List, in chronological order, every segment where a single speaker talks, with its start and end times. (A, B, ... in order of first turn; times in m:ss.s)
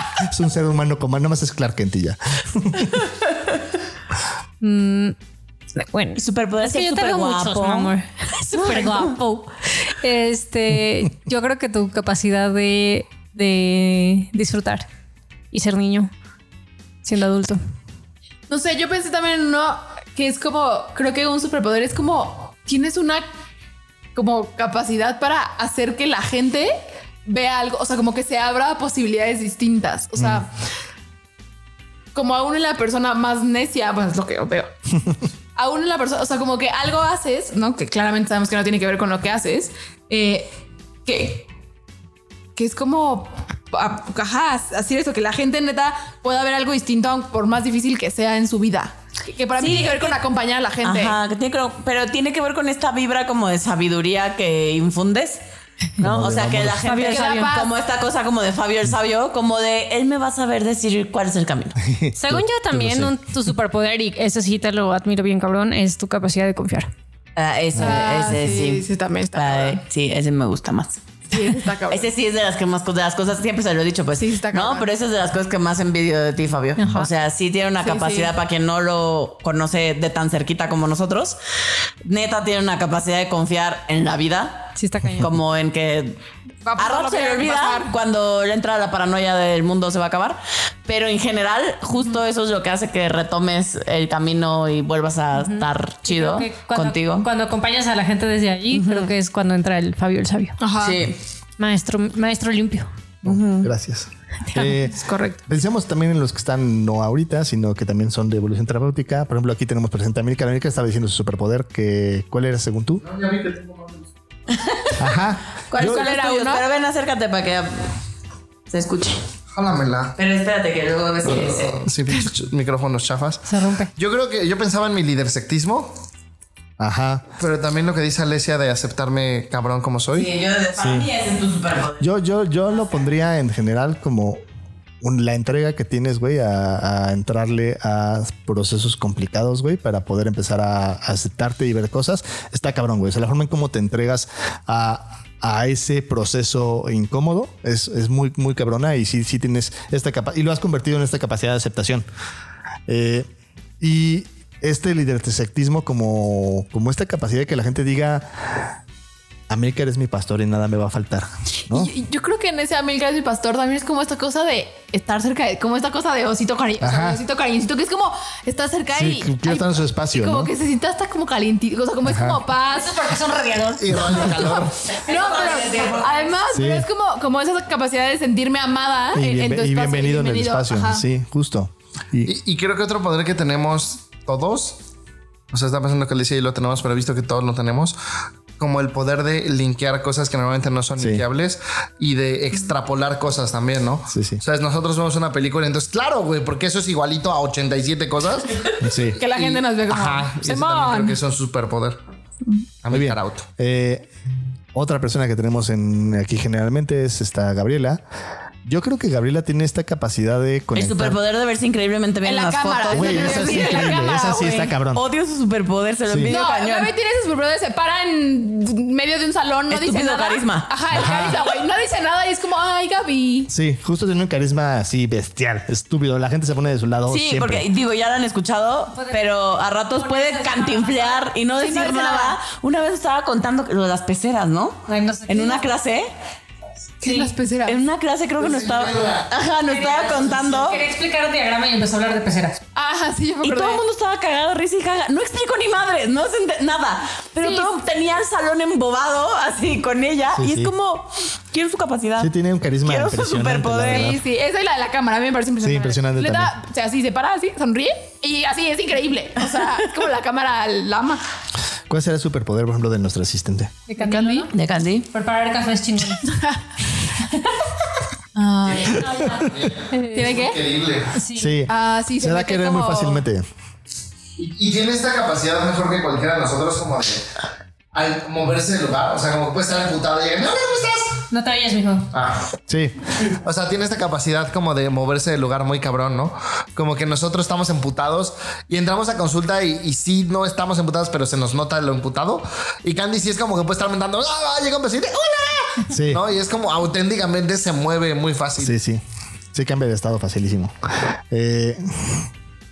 0:00.2-0:03.0 A
0:04.6-0:05.2 B
0:05.8-0:14.8 B
0:06.2-0:07.9 C
0:08.5-0:09.2 C
0:15.5-0:16.1 B
0:17.0-0:17.6 B
0:18.5-0:23.2 D
0:24.1-0:30.5 D
0:30.2-0:30.4 A
0:32.1-0:34.7 D
0:35.6-0:40.5 D
0:41.0-0:41.4 D
0:42.6-0:51.2 D
0:49.6-0:50.1 C
0:50.8-0:55.4 C
0:56.0-0:56.8 A
0:56.0-1:01.8 C
0:56.8-0:57.5 B
0:57.0-0:57.7 D
1:01.8-1:03.2 A
1:02.2-1:06.9 B
1:07.4-1:11.3 C
1:07.8-1:09.8 D
1:11.3-1:12.1 D
1:11.9-1:21.4 C
1:14.2-1:14.9 D
1:16.8-1:17.1 B
1:17.8-1:18.3 D
1:22.0-1:26.2 C
1:24.8-1:25.3 B
1:26.6-1:27.9 D
1:26.8-1:37.3 C
1:35.4-1:40.6 B
1:38.7-1:39.1 C
1:40.6-1:41.0 D
1:40.8-1:41.2 C
1:41.6-1:42.9 B
1:43.2-1:53.0 A
1:43.2-1:43.7 C
1:44.6-1:45.4 D
1:53.0-1:54.1 E
1:54.5-1:55.1 C
1:55.0-1:56.0 A
1:55.7-1:57.9 C
1:55.7-1:56.6 D
1:58.7-1:59.2 C
1:59.5-2:00.1 E
2:00.2-2:01.8 C
2:01.3-2:03.4 E
2:03.4-2:03.9 B
2:04.0-2:05.9 E
2:06.8-2:07.2 A
2:07.4-2:10.3 E
2:10.1-2:12.1 C
2:10.8-2:11.1 A
2:12.0-2:14.4 A
2:15.0-2:32.0 A
2:32.9-2:33.3 A
2:33.8-2:38.7 A
2:39.5-2:41.9 A
2:41.7-2:53.0 D
2:46.8-2:47.2 A
2:48.9-2:50.5 A
2:52.0-2:52.4 A
2:52.7-2:54.4 B
2:53.8-2:54.8 E
2:54.4-3:01.0 D
2:54.8-2:56.3 C
2:55.1-2:56.0 B
2:56.5-2:56.9 A
2:59.1-3:02.3 A
3:02.2-3:04.8 E
3:05.5-3:08.0 E
3:08.6-3:18.7 E
3:11.0-3:11.2 A
3:14.1-3:14.4 A
3:18.8-3:19.2 A
3:19.2-3:21.2 D
3:19.2-3:22.0 E
3:22.8-3:23.5 E
3:22.9-3:24.1 A
3:24.7-3:28.0 A
3:28.6-3:31.2 A
3:30.7-3:34.0 C
3:32.2-3:34.7 D
3:32.9-3:35.0 A
3:34.9-3:36.9 C
3:36.1-3:36.4 A
3:36.3-3:43.5 D
3:39.7-3:40.7 C
3:40.9-3:41.4 A
3:43.5-3:47.7 A
3:47.1-3:56.1 C
3:48.9-3:49.2 B
3:49.9-3:52.3 B
3:51.6-3:52.1 D
3:54.9-3:55.7 B
3:57.0-3:57.8 D
3:57.0-3:57.3 B
3:57.6-4:00.8 C
3:58.4-3:59.3 E
3:59.7-4:02.6 B
4:00.1-4:00.8 E
4:02.7-4:03.8 D
4:03.4-4:12.3 C
4:07.4-4:07.7 D
4:10.3-4:10.7 A
4:12.2-4:14.2 A
4:12.8-4:14.2 C
4:13.9-4:21.2 D
4:15.6-4:16.5 A
4:19.6-4:19.8 C
4:21.9-4:23.7 A
4:23.9-4:24.5 B
4:24.0-4:24.5 D
4:24.5-4:25.1 C
4:25.1-4:26.3 B
4:26.3-4:26.6 D
4:28.4-4:29.4 D
4:28.8-4:31.2 E
4:28.9-4:30.4 B
4:30.1-4:30.6 D
4:31.1-4:31.5 B
4:31.3-4:33.4 A
4:31.7-4:33.2 D
4:34.4-4:37.2 E
4:37.9-4:41.2 E
4:41.3-4:42.1 B
4:42.1-4:42.5 E
4:42.7-4:43.0 A
4:43.3-4:58.7 E
4:55.9-4:56.2 A
4:58.6-4:59.0 A
4:59.5-5:00.7 A
5:01.3-5:02.3 A